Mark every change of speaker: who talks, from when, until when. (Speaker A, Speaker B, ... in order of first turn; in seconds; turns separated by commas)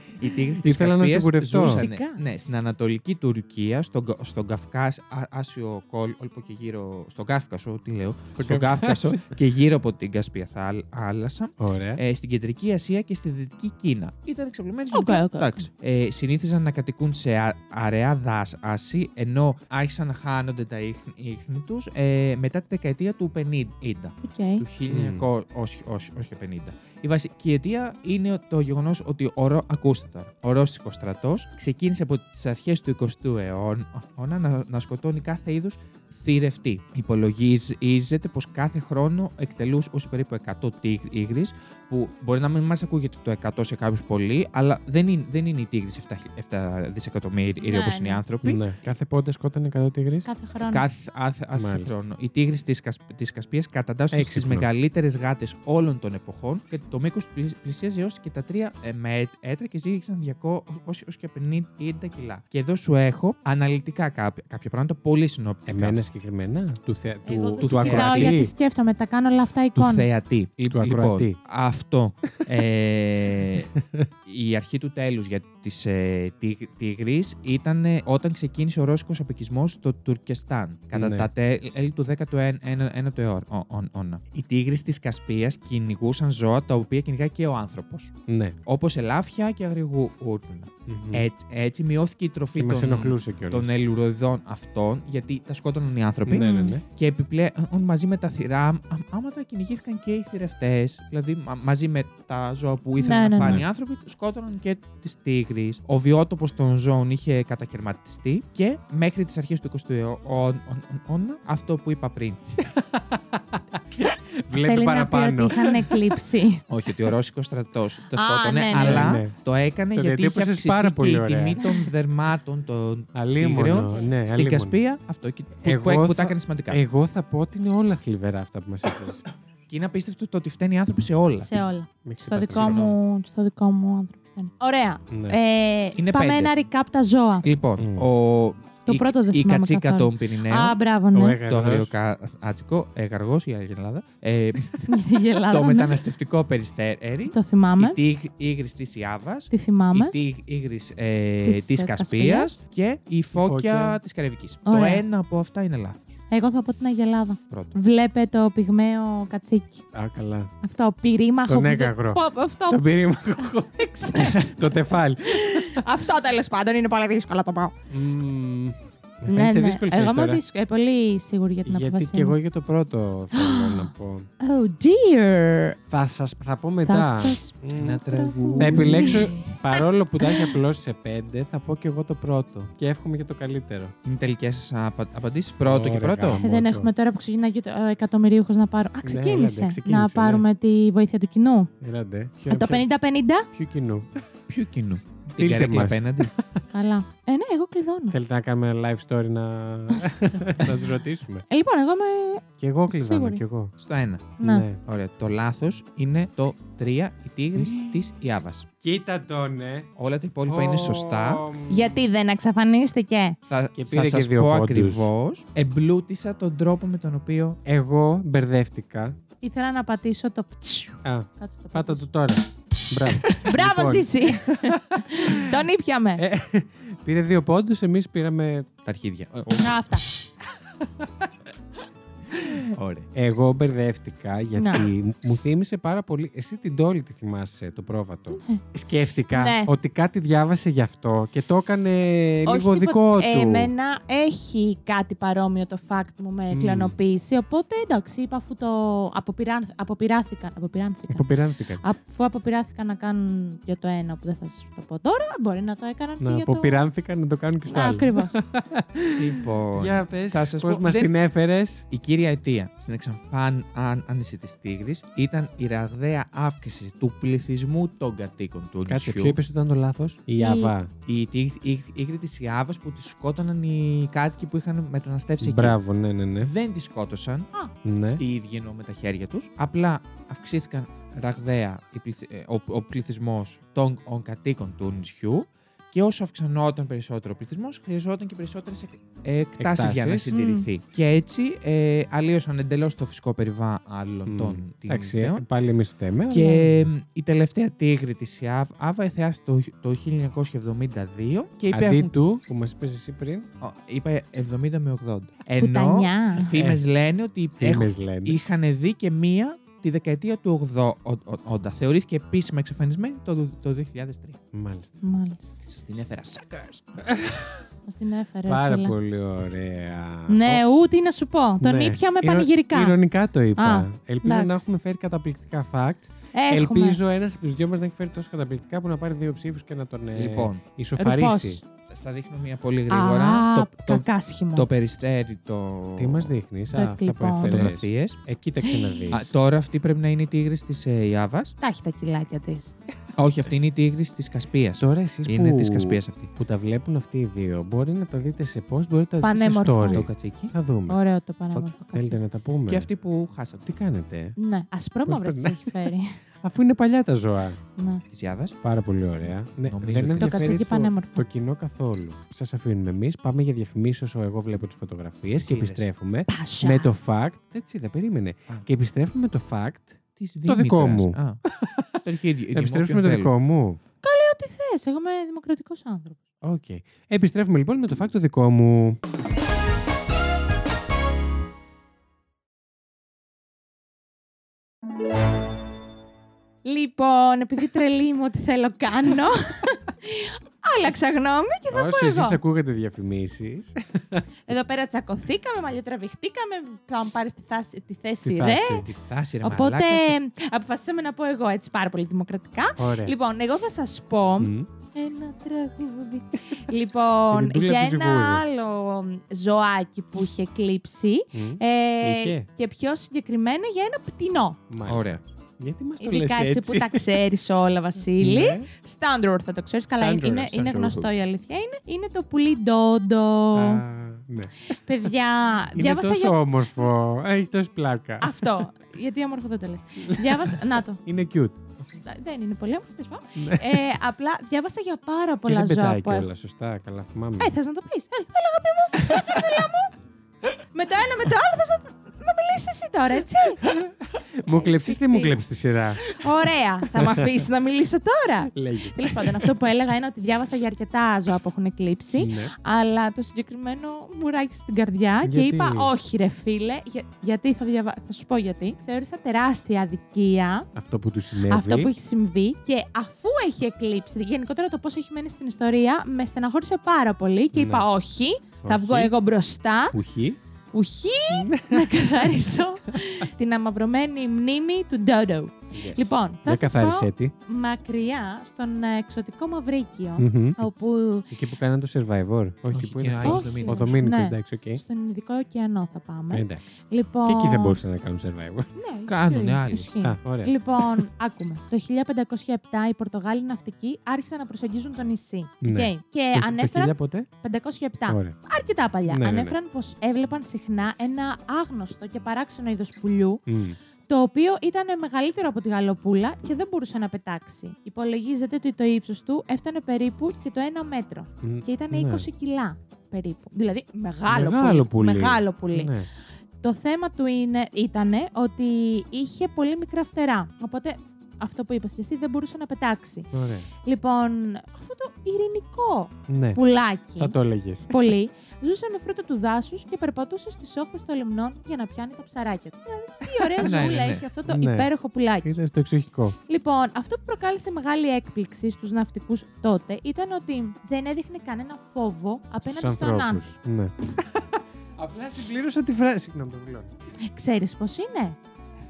Speaker A: 0.2-48.6, Speaker B: 0.6-1.8, Speaker C: 1.6-2.2, Speaker B: 8.4-9.2, Speaker B: 11.6-12.0, Speaker C: 14.9-15.7, Speaker C: 24.2-24.6, Speaker B: 24.9-25.3, Speaker C: 47.6-48.2, Speaker B: 48.4-50.3, Speaker C: 50.2-50.8, Speaker A: 50.7-66.0, Speaker B: 51.5-52.0, Speaker B: 54.1-54.7, Speaker B: 65.7-68.5, Speaker C: 67.2-70.1, Speaker A: 67.6-68.4, Speaker A: 69.8-73.7, Speaker B: 70.7-71.3, Speaker B: 73.7-74.1, Speaker A: 74.2-88.1, Speaker B: 80.9-81.3, Speaker B: 88.3-88.6, Speaker A: 88.7-112.4, Speaker B: 90.9-91.3, Speaker B: 92.5-93.7, Speaker B: 96.2-96.8, Speaker C: 96.3-96.8, Speaker C: 103.0-103.6, Speaker B: 103.4-103.7, Speaker B: 112.7-116.0, Speaker C: 114.5-116.6, Speaker A: 116.7-126.8, Speaker C: 118.1-119.2, Speaker B: 118.7-119.3, Speaker B: 119.9-121.6, Speaker C: 121.6-121.8, Speaker B: 123.1-124.8, Speaker B: 125.6-129.2, Speaker A: 129.7-131.5, Speaker C: 131.4-137.4, Speaker B: 132.0-132.8, Speaker A: 132.4-133.0, Speaker B: 135.1-135.4, Speaker A: 136.0-136.5, Speaker A: 137.4-140.8, Speaker B: 137.8-138.1, Speaker C: 138.8-141.4, Speaker B: 141.1-141.9, Speaker A: 141.4-144.9, Speaker C: 144.9-146.0, Speaker A: 145.5-156.1, Speaker C: 147.3-148.0, Speaker C: 149.5-150.1, Speaker C: 151.4-152.6, Speaker B: 153.3-154.0, Speaker C: 154.7-155.0, Speaker C: 156.3-159.8, Speaker A: 157.5-157.7, Speaker B: 159.9-160.5, Speaker C: 160.6-162.8, Speaker B: 161.5-165.8, Speaker C: 163.7-167.7, Speaker B: 167.9-170.4, Speaker C: 169.3-172.4, Speaker B: 171.7-174.3, Speaker C: 173.3-175.8, Speaker B: 175.9-183.9, Speaker C: 176.8-177.6, Speaker A: 177.7-179.2, Speaker C: 178.1-180.5, Speaker A: 184.0-186.4, Speaker B: 185.6-186.9, Speaker C: 186.4-191.7, Speaker B: 189.0-190.4, Speaker B: 191.8-192.8, Speaker C: 192.4-193.5, Speaker B: 193.5-194.1, Speaker A: 194.5-196.3, Speaker B: 195.4-196.4, Speaker C: 196.7-198.2, Speaker B: 198.1-201.4, Speaker C: 201.5-203.4, Speaker B: 202.6-203.7, Speaker A: 203.8-208.7, Speaker C: 204.4-204.7, Speaker B: 204.4-204.8, Speaker B: 207.6-207.8, Speaker B: 208.8-209.9, Speaker A: 210.0-211.4, Speaker B: 210.4-212.0, Speaker C: 211.7-213.4, Speaker A: 213.5-217.6, Speaker B: 213.8-215.1, Speaker B: 217.7-219.2, Speaker C: 219.4-222.0, Speaker B: 221.0-225.6, Speaker C: 223.4-226.2, Speaker B: 226.2-228.7, Speaker A: 228.8-229.7, Speaker C: 229.6-230.0, Speaker A: 232.4-233.0, Speaker B: 232.8-243.7, Speaker C: 234.6-234.9, Speaker C: 238.3-238.6, Speaker C: 239.3-239.7, Speaker C: 242.4-251.2, Speaker B: 246.5-246.9, Speaker B: 251.1-251.8, Speaker C: 251.8-256.7, Speaker B: 256.2-261.9, Speaker C: 257.7-258.4, Speaker A: 259.1-261.1, Speaker A: 261.9-269.4, Speaker B: 268.9-270.9, Speaker C: 270.4-270.7, Speaker A: 271.1-275.8, Speaker B: 275.4-276.5, Speaker A: 276.4-277.5, Speaker B: 277.8-278.2, Speaker A: 278.2-295.4, Speaker B: 289.6-290.3, Speaker C: 290.3-290.7, Speaker B: 294.2-296.9, Speaker A: 296.3-302.1, Speaker B: 301.7-303.5, Speaker A: 303.6-314.4, Speaker C: 305.6-306.5, Speaker B: 306.4-306.8, Speaker B: 307.6-308.4, Speaker B: 314.5-315.0, Speaker C: 315.0-315.5, Speaker A: 315.7-317.0, Speaker B: 317.0-317.7, Speaker C: 317.9-318.9, Speaker B: 318.5-320.6, Speaker C: 320.3-323.0, Speaker B: 321.6-331.6, Speaker C: 323.6-324.6, Speaker C: 326.3-327.0, Speaker A: 330.1-330.6, Speaker C: 331.0-331.6, Speaker A: 331.9-336.3, Speaker C: 332.9-334.7, Speaker B: 335.9-339.3, Speaker C: 336.7-337.7, Speaker A: 337.4-338.2, Speaker C: 338.6-339.2, Speaker A: 339.1-341.6, Speaker C: 341.6-342.7, Speaker A: 343.2-346.3, Speaker B: 344.8-351.0, Speaker C: 349.2-350.1, Speaker A: 349.9-350.5, Speaker C: 350.9-352.2, Speaker B: 351.9-352.9, Speaker A: 352.7-353.6, Speaker B: 353.6-354.4, Speaker C: 354.4-356.2, Speaker B: 355.1-357.6, Speaker C: 357.8-358.0, Speaker A: 358.1-358.5, Speaker B: 358.6-373.8, Speaker A: 359.6-360.6, Speaker C: 360.2-361.2, Speaker A: 365.4-365.9, Speaker C: 366.3-366.9, Speaker A: 370.2-371.4, Speaker A: 372.0-373.3, Speaker C: 374.0-376.2, Speaker B: 376.4-379.0, Speaker C: 386.6-392.4, Speaker B: 391.7-394.2, Speaker C: 394.4-398.9, Speaker B: 398.2-398.9, Speaker A: 398.8-400.1, Speaker C: 399.4-414.6, Speaker B: 402.8-403.1, Speaker B: 404.4-404.7, Speaker B: 407.3-408.4, Speaker B: 411.3-412.5, Speaker B: 414.7-417.1, Speaker A: 414.8-415.2, Speaker C: 416.0-423.8, Speaker B: 418.2-418.7, Speaker B: 419.9-421.1, Speaker B: 423.5-424.5, Speaker C: 424.6-426.9, Speaker B: 425.7-428.5, Speaker C: 428.2-431.0, Speaker B: 430.0-431.6, Speaker C: 432.0-436.3, Speaker B: 433.4-433.9, Speaker B: 435.4-437.5, Speaker C: 437.4-439.9, Speaker B: 439.1-439.6, Speaker C: 440.7-443.7, Speaker B: 443.7-446.2, Speaker C: 444.5-445.4, Speaker C: 446.0-460.7, Speaker B: 446.8-447.4, Speaker B: 448.5-449.5, Speaker B: 452.1-452.5, Speaker B: 455.2-455.9, Speaker B: 460.7-461.9, Speaker C: 461.5-469.9, Speaker B: 467.5-467.9, Speaker B: 468.6-469.1, Speaker B: 469.9-470.4, Speaker C: 470.7-481.3, Speaker B: 471.3-472.3, Speaker B: 472.9-473.3, Speaker B: 475.7-477.3, Speaker B: 480.2-480.7, Speaker B: 481.3-484.8, Speaker A: 482.7-483.9, Speaker C: 483.2-487.8, Speaker B: 486.3-486.6, Speaker B: 487.2-488.7, Speaker C: 488.8-503.4, Speaker A: 489.1-489.9, Speaker B: 490.0-491.1, Speaker B: 495.6-497.3, Speaker B: 498.1-498.4, Speaker B: 499.1-499.6, Speaker B: 503.5-503.8, Speaker C: 504.1-515.9, Speaker B: 511.4-512.3, Speaker B: 514.3-516.1, Speaker C: 516.6-523.3, Speaker B: 523.3-523.7, Speaker C: 523.8-527.4, Speaker B: 526.3-526.6, Speaker B: 527.2-527.9, Speaker C: 527.9-535.5, Speaker B: 533.4-533.7, Speaker A: 533.6-534.2, Speaker B: 534.5-534.9, Speaker B: 535.4-536.4, Speaker C: 536.5-543.4, Speaker B: 542.6-546.9, Speaker C: 547.3-548.4